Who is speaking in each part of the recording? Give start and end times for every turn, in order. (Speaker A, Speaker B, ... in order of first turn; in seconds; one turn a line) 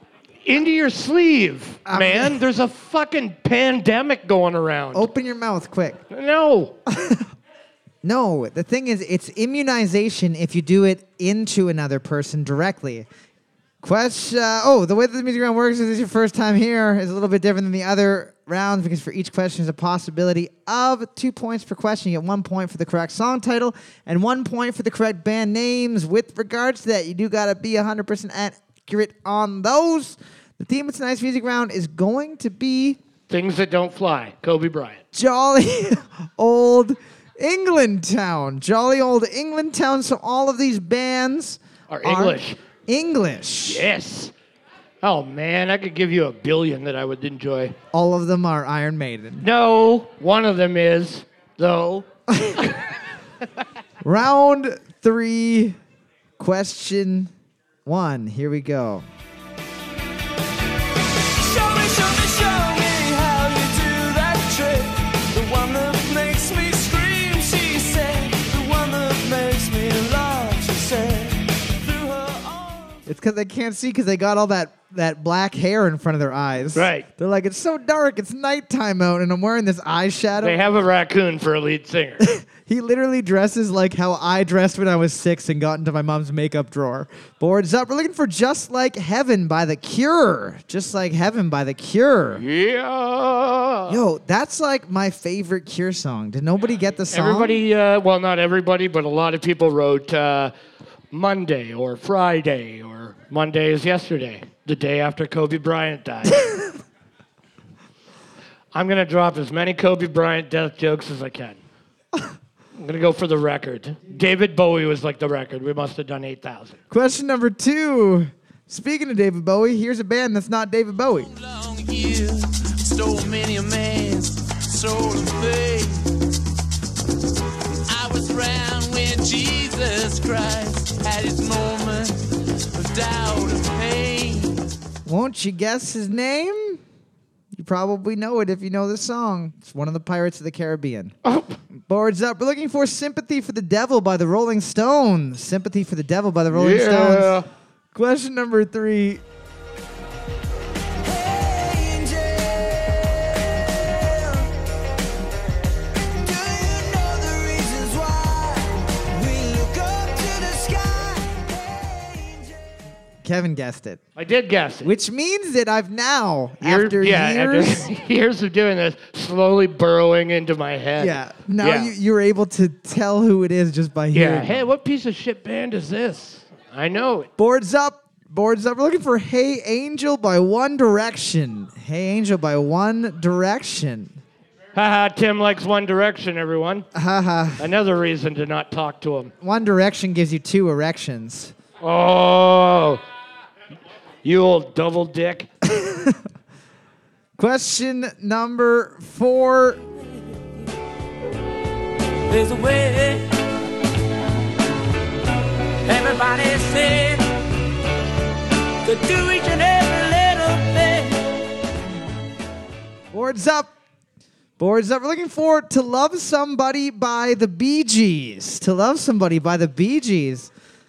Speaker A: 0.4-5.1
Speaker B: 1.9-2.4
Speaker B: 4.9-6.0
Speaker A: 6.1-6.8
Speaker B: 6.9-7.3
Speaker B: 8.0-13.1
Speaker B: 13.8-33.0
Speaker A: 33.3-35.0
Speaker B: 35.1-43.9
Speaker A: 41.9-42.6
Speaker A: 43.7-44.3
Speaker A: 45.0-47.8
Speaker B: 47.9-49.5
Speaker A: 49.4-52.8
Speaker B: 52.4-52.6
Speaker B: 54.0-55.8
Speaker B: 56.4-57.3
Speaker B: 57.9-59.1
Speaker C: 61.3-73.1
Speaker B: 73.1-80.6
Speaker A: 76.8-77.1
Speaker A: 80.4-82.3
Speaker B: 82.2-92.4
Speaker A: 92.4-94.0
Speaker B: 93.9-97.6
Speaker A: 97.1-100.5
Speaker A: 101.1-106.4
Speaker A: 108.7-111.6
Speaker A: 112.8-116.8
Speaker B: 116.9-121.3
Speaker C: 121.2-126.1
Speaker C: 127.9-134.7
Speaker B: 135.1-136.8
Speaker B: 137.5-141.1
Speaker A: 141.2-141.6
Speaker B: 141.9-147.4
Speaker A: 146.5-147.5
Speaker B: 147.9-149.2
Speaker C: 151.0-154.5
Speaker C: 156.0-162.6
Speaker B: 163.2-164.0
Speaker A: 164.2-164.9
Speaker B: 164.8-167.9
Speaker A: 166.6-171.9
Speaker B: 171.0-174.6
Speaker A: 174.1-177.3
Speaker B: 177.4-184.2
Speaker A: 184.7-186.9
Speaker B: 186.9-187.7
Speaker A: 187.6-189.3
Speaker B: 189.4-191.5
Speaker A: 191.8-193.0
Speaker A: 194.2-195.5
Speaker B: 195.6-196.2
Speaker B: 197.4-199.8
Speaker C: 202.3-203.3
Speaker C: 205.9-207.3
Speaker C: 208.8-211.3
Speaker B: 213.1-213.7
Speaker B: 214.6-220.5